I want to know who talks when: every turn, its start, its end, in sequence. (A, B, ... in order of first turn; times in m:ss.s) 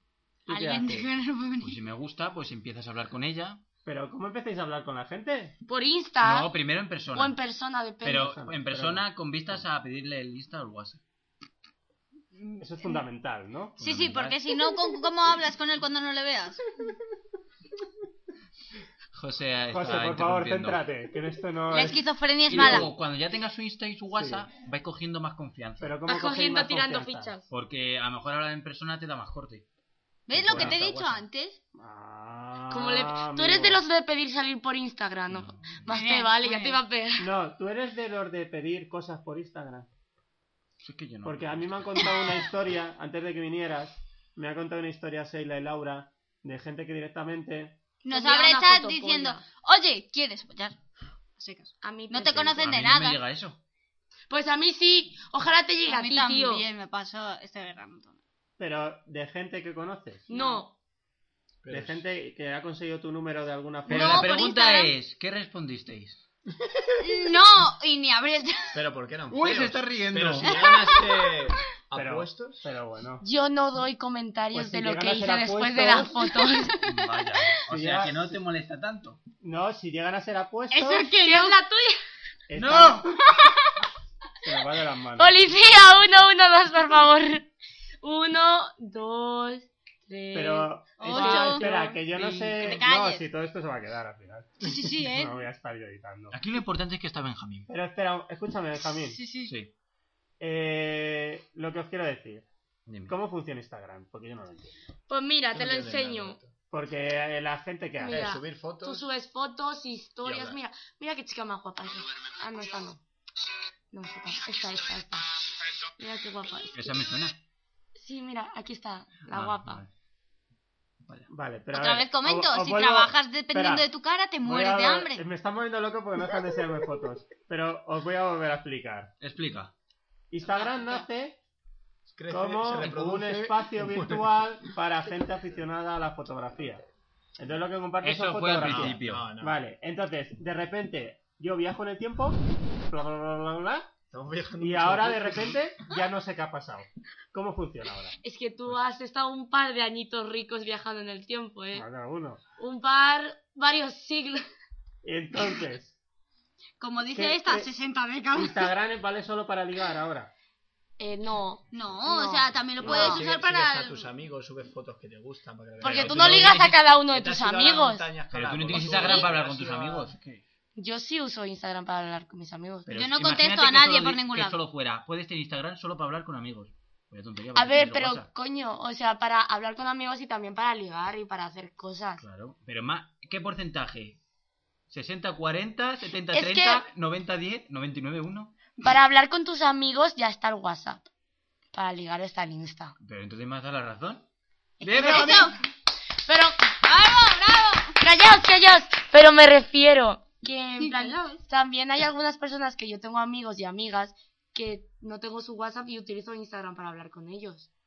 0:00.5-0:01.1 A
0:00.5-0:01.8 B
0:01.6-0:03.6 C
0:03.8-0:05.6 A
0:05.7-0:06.5 D
0:06.2-0:07.4 C
0:07.1-0:08.4 D
0:08.0-0:11.0 C
0:08.2-0:09.6 A
0:12.4-0:13.0 B
0:12.6-0:13.8 A
0:13.8-0:14.4 C
0:13.8-0:16.6 B
0:19.1-0:20.8 C
0:19.7-0:22.9 A
0:21.7-0:22.9 B
0:22.5-0:26.0 C
0:24.1-0:24.5 A
0:25.8-0:27.4 A
0:26.1-0:27.4 D
0:27.5-0:29.6 C
0:30.3-0:31.6 B
0:30.3-0:31.3 C
0:30.4-0:30.8 A
0:31.8-0:33.8 A
0:32.7-0:37.3 D
0:35.3-0:36.0 C
0:35.9-0:36.8 B
0:37.2-0:39.9 A
0:40.8-0:42.2 C
0:41.2-0:47.8 A
0:48.0-0:49.4 D
0:48.1-0:50.8 B
0:51.4-0:53.2 B
0:51.8-0:52.7 D
0:52.5-0:53.6 C
0:54.3-0:56.7 D
0:55.9-0:58.2 B
0:58.6-1:00.3 A
1:00.3-1:00.7 D
1:00.3-1:00.6 B
1:01.6-1:02.0 E
1:01.7-1:04.3 A
1:03.9-1:06.2 C
1:03.9-1:04.9 B
1:07.0-1:08.8 B
1:08.7-1:12.6 E
1:09.3-1:10.6 C
1:10.4-1:11.4 B
1:12.0-1:13.2 A
1:13.2-1:16.8 D
1:14.5-1:16.4 A
1:16.8-1:19.2 C
1:17.7-1:18.4 A
1:19.4-1:21.1 A
1:20.7-1:21.6 B
1:21.2-1:22.0 D
1:22.5-1:23.2 A
1:22.6-1:23.2 C
1:23.3-1:23.5 B
1:24.4-1:25.4 A
1:25.2-1:27.5 D
1:28.0-1:32.0 D
1:30.3-1:36.4 A
1:31.0-1:31.6 B
1:32.0-1:32.8 C
1:32.6-1:33.3 B
1:34.6-1:35.4 B
1:36.3-1:37.7 C
1:37.7-1:39.3 A
1:38.9-1:39.5 B
1:39.4-1:39.7 C
1:40.4-1:42.5 A
1:42.9-1:43.2 C
1:43.1-1:44.8 A
1:45.1-1:46.4 D
1:45.5-1:46.5 E
1:46.7-1:48.3 A
1:48.0-1:53.0 D
1:48.1-1:49.0 E
1:50.2-1:50.6 E
1:53.9-1:55.3 D
1:56.0-1:57.0 D
1:56.7-1:57.4 C
1:58.0-1:59.8 D
1:59.3-1:59.9 C
2:01.3-2:03.9 A
2:01.7-2:05.2 B
2:04.4-2:09.1 A
2:09.2-2:09.7 C
2:10.3-2:11.4 A
2:10.4-2:11.0 B
2:12.1-2:14.3 E
2:12.3-2:16.9 A
2:17.4-2:23.9 A
2:18.0-2:19.3 C
2:18.6-2:19.6 E
2:24.1-2:25.6 E
2:24.6-2:28.2 A
2:28.2-2:31.9 D
2:31.8-2:32.4 A
2:32.6-2:34.4 D
2:35.0-2:36.0 A
2:36.8-2:38.7 B
2:37.1-2:37.7 A
2:38.3-2:40.3 A
2:41.0-2:43.2 D
2:41.7-2:44.1 B
2:42.8-2:50.4 E
2:42.8-2:43.1 A
2:45.8-2:48.1 D
2:45.8-2:46.9 C
2:48.3-2:50.4 C
2:48.7-2:49.3 B
2:50.8-2:53.0 D
2:52.9-2:58.3 C
2:52.9-2:54.6 B
2:57.6-3:02.2 D
3:02.2-3:04.2 C
3:04.9-3:08.5 C
3:06.3-3:06.9 D
3:08.8-3:11.1 D
3:11.7-3:13.0 D
3:13.0-3:14.2 C
3:14.8-3:15.5 C
3:14.8-3:15.6 D
3:15.0-3:15.6 B
3:16.3-3:16.7 D
3:16.8-3:18.0 B
3:18.0-3:27.7 D
3:20.8-3:21.4 B